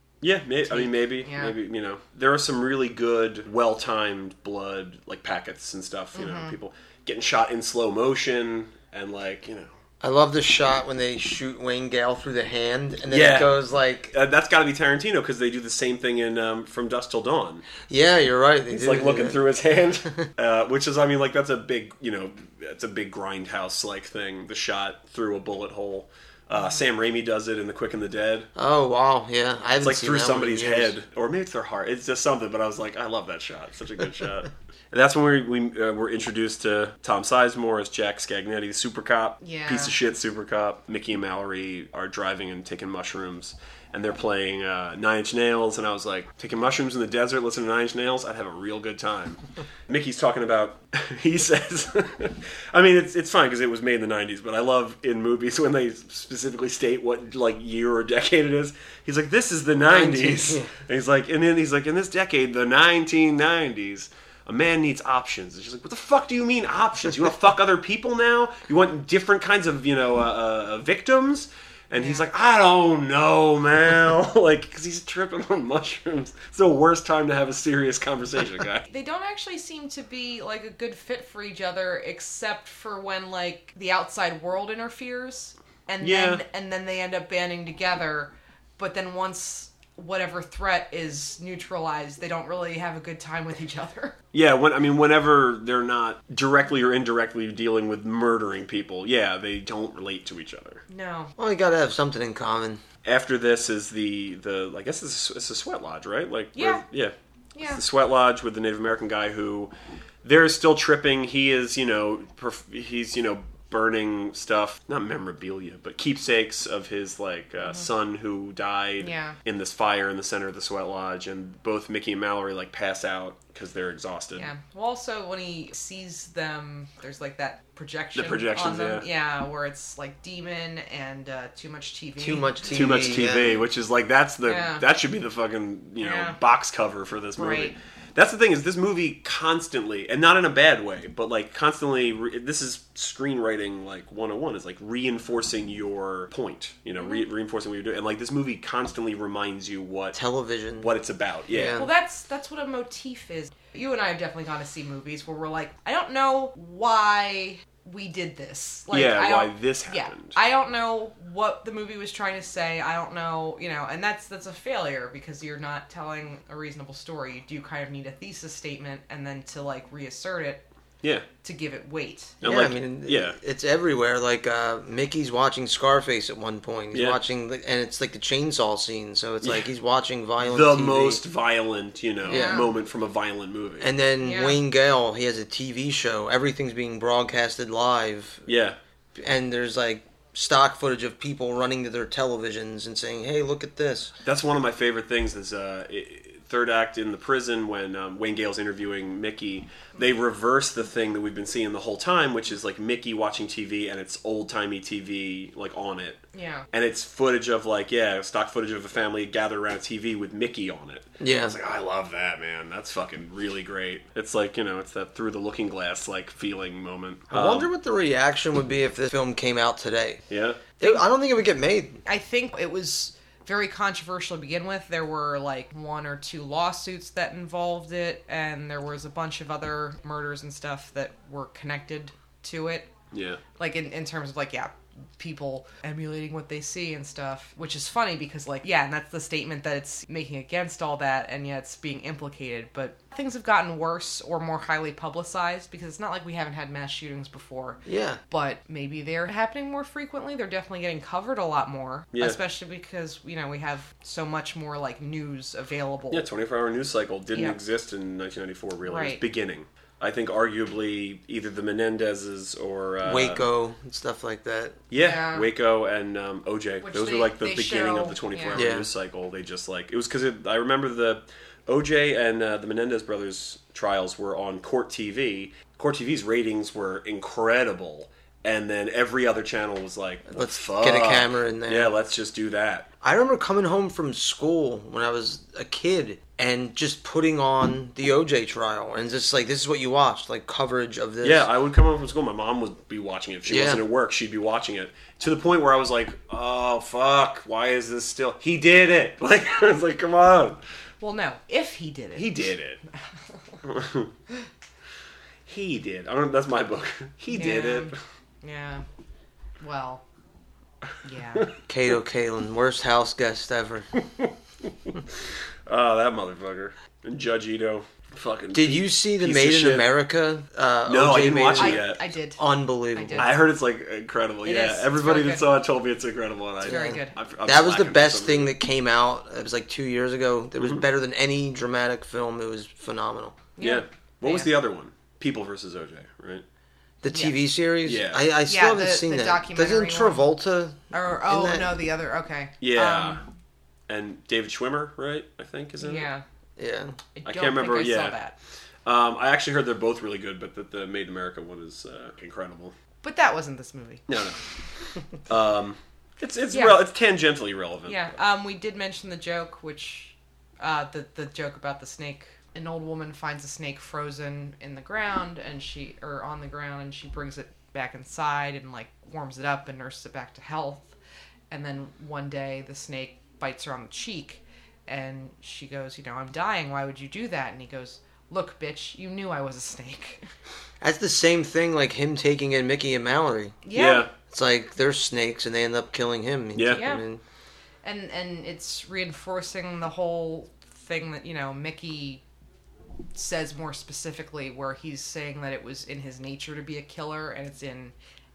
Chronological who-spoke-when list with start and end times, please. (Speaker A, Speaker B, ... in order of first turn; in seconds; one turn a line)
Speaker A: 0.2-9.7
Speaker B: 0.7-1.6
Speaker B: 6.2-6.5
Speaker C: 10.0-14.1
Speaker A: 13.1-17.6
Speaker C: 17.9-19.4
Speaker A: 18.7-28.5
Speaker C: 28.6-30.9
Speaker A: 29.8-78.8
Speaker B: 39.4-40.0
Speaker C: 59.9-60.7
Speaker B: 72.0-72.2
Speaker B: 78.9-94.2
Speaker A: 86.0-86.4
Speaker A: 94.3-100.8
Speaker B: 100.9-101.3
Speaker C: 101.4-102.8
Speaker A: 103.0-109.7
Speaker B: 106.5-106.8
Speaker B: 107.5-107.8
Speaker A: 110.2-124.5
Speaker B: 119.0-119.4
Speaker B: 124.4-133.2
Speaker A: 128.2-129.1
Speaker C: 132.2-133.6
Speaker A: 132.7-150.2
Speaker B: 134.4-134.9
Speaker B: 136.0-136.4
Speaker B: 137.4-137.7
Speaker C: 150.2-150.9
Speaker A: 150.8-151.8
Speaker C: 151.5-151.9
Speaker B: 151.8-170.7
Speaker A: 158.9-160.4
Speaker B: 171.4-172.4
Speaker A: 172.4-173.4
Speaker C: 172.4-181.2
Speaker A: 176.9-177.2
Speaker A: 179.4-179.7
Speaker A: 180.4-183.9
Speaker B: 182.2-182.7
Speaker C: 182.3-182.7
Speaker C: 183.8-188.4
Speaker B: 184.2-184.6
Speaker A: 188.5-188.8
Speaker C: 189.2-194.1
Speaker A: 194.2-206.2
Speaker B: 206.3-206.7
Speaker A: 206.7-217.7
Speaker C: 211.2-211.6
Speaker C: 217.3-220.2
Speaker A: 220.3-220.6
Speaker C: 220.8-222.0
Speaker B: 222.1-232.9
Speaker A: 233.1-233.4
Speaker B: 233.6-256.3
Speaker C: 247.9-248.2
Speaker A: 252.1-252.4
Speaker A: 256.1-263.5
Speaker B: 258.9-259.2
Speaker C: 263.0-264.8
Speaker A: 264.9-282.9
Speaker B: 265.0-265.5
Speaker B: 266.8-268.6
Speaker C: 268.5-268.9
Speaker C: 280.3-281.9
Speaker C: 283.0-291.5
Speaker A: 291.2-300.6
Speaker C: 293.5-293.8
Speaker B: 301.0-302.5
Speaker A: 302.1-302.8
Speaker A: 303.6-304.1
Speaker A: 305.5-307.9
Speaker B: 307.3-308.8
Speaker B: 309.6-310.0
Speaker B: 311.0-311.5
Speaker C: 311.7-313.9
Speaker A: 314.0-319.9
Speaker C: 318.5-321.9
Speaker A: 320.9-322.0
Speaker B: 321.5-323.4
Speaker C: 322.4-323.4
Speaker A: 323.2-328.5
Speaker B: 324.4-325.4
Speaker B: 326.6-327.2
Speaker C: 326.6-333.4
Speaker B: 333.6-334.5
Speaker A: 333.6-336.4
Speaker C: 337.0-341.7
Speaker B: 337.1-337.4
Speaker A: 337.9-338.3
Speaker B: 338.5-340.2
Speaker B: 340.9-343.2
Speaker A: 342.6-343.2
Speaker A: 343.9-346.1
Speaker B: 345.8-346.2
Speaker C: 346.6-347.0
Speaker B: 347.2-348.4
Speaker A: 347.2-348.2
Speaker A: 348.9-352.7
Speaker B: 353.0-354.0
Speaker A: 354.1-354.4
Speaker A: 355.3-358.1
Speaker B: 356.5-356.8
Speaker B: 357.9-370.9
Speaker B: 371.5-380.2
Speaker C: 380.8-383.6
Speaker B: 383.6-384.1
Speaker A: 383.7-384.1
Speaker C: 384.3-387.2
Speaker A: 386.6-386.8
Speaker B: 386.7-387.0
Speaker B: 387.8-392.2
Speaker B: 393.1-397.9